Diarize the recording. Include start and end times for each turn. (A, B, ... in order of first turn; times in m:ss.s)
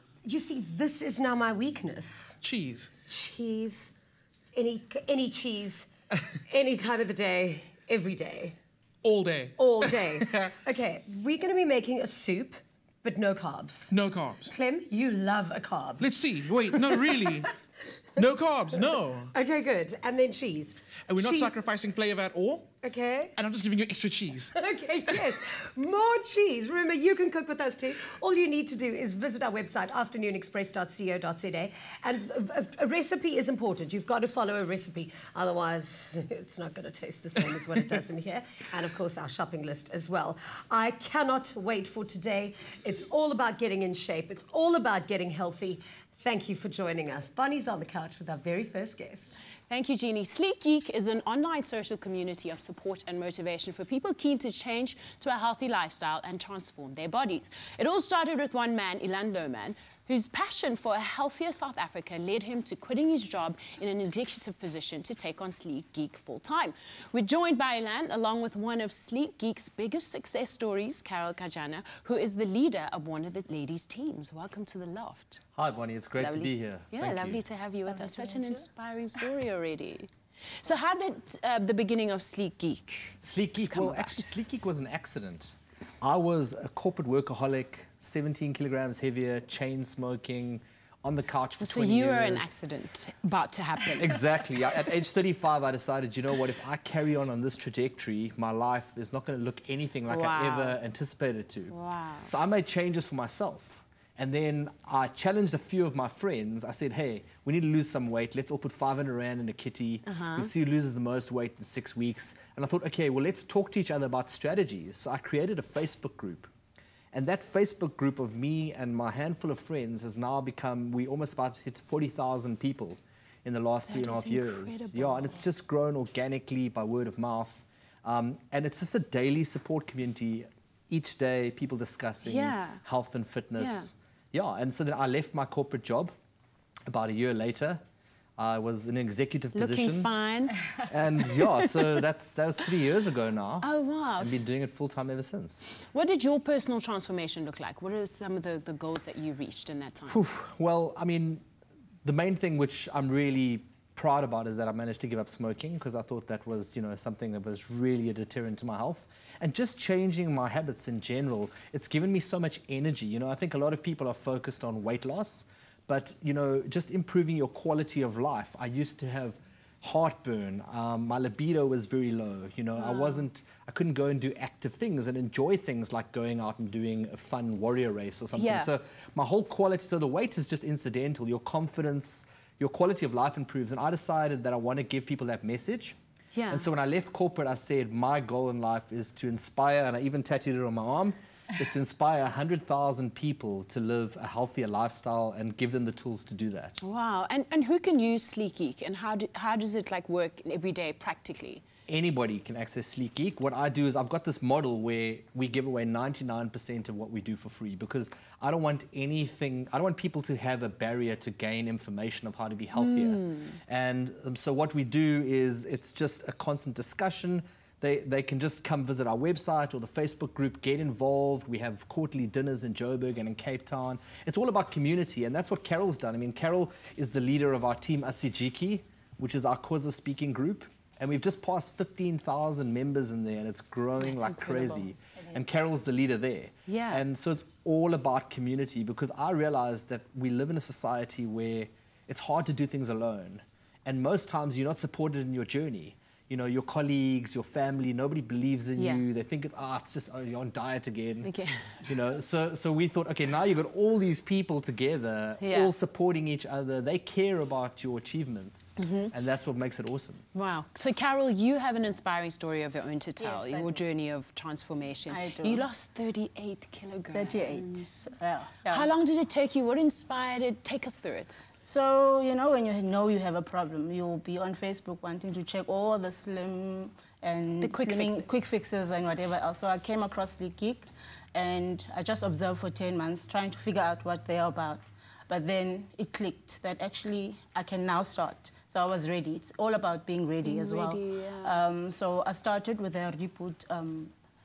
0:00.2-0:02.4 A
0:02.4-0:02.9 B
0:03.1-0:03.9 A
0:04.5-0:05.9 A
0:06.5-0:08.6 A
0:09.0-0:10.5 B
0:09.6-0:13.9 A
0:13.9-0:14.5 B
0:14.5-0:17.5 A
0:16.0-0:17.5 B
0:18.2-0:19.3 B
0:18.8-0:21.6 A
0:21.1-0:22.7 B
0:22.8-0:23.4 A
0:23.4-0:24.5 B
0:24.5-0:49.4 A
0:25.1-0:25.4 B
0:49.7-1:15.4 C
1:15.6-1:17.4 D
1:16.2-1:20.1 C
1:17.9-1:18.6 E
1:20.6-1:23.2 C
1:23.2-1:32.6 D
1:23.7-1:24.3 C
1:31.6-1:34.4 C
1:34.0-1:56.5 D
1:40.1-1:40.8 C
1:41.7-1:42.3 C
1:50.1-1:50.5 C
1:57.1-2:16.2 D
2:03.9-2:05.5 C
2:12.2-2:12.8 C
2:13.6-2:13.9 C
2:16.9-2:17.8 D
2:18.4-2:20.1 D
2:19.5-2:22.0 C
2:20.9-2:25.7 D
2:23.6-2:24.4 C
2:25.9-2:30.2 C
2:30.1-2:31.4 D
2:32.0-3:06.0 D
2:52.8-2:53.2 C
2:58.3-2:58.7 C
3:06.4-3:06.7 C
3:06.5-3:16.8 D
3:16.8-3:21.6 C
3:21.9-4:11.3 D
3:32.8-3:33.6 C
3:54.0-3:55.0 C
3:56.7-3:57.0 C
4:08.8-4:09.0 C
4:11.2-4:11.9 C
4:11.8-4:20.2 D
4:15.4-4:15.7 C
4:18.8-4:19.1 C
4:20.4-4:28.1 C
4:23.2-4:23.8 E
4:25.1-4:25.7 E
4:27.1-4:28.9 E
4:28.7-4:31.4 C
4:31.7-4:54.1 E
4:37.6-4:38.4 C
4:50.4-4:51.5 C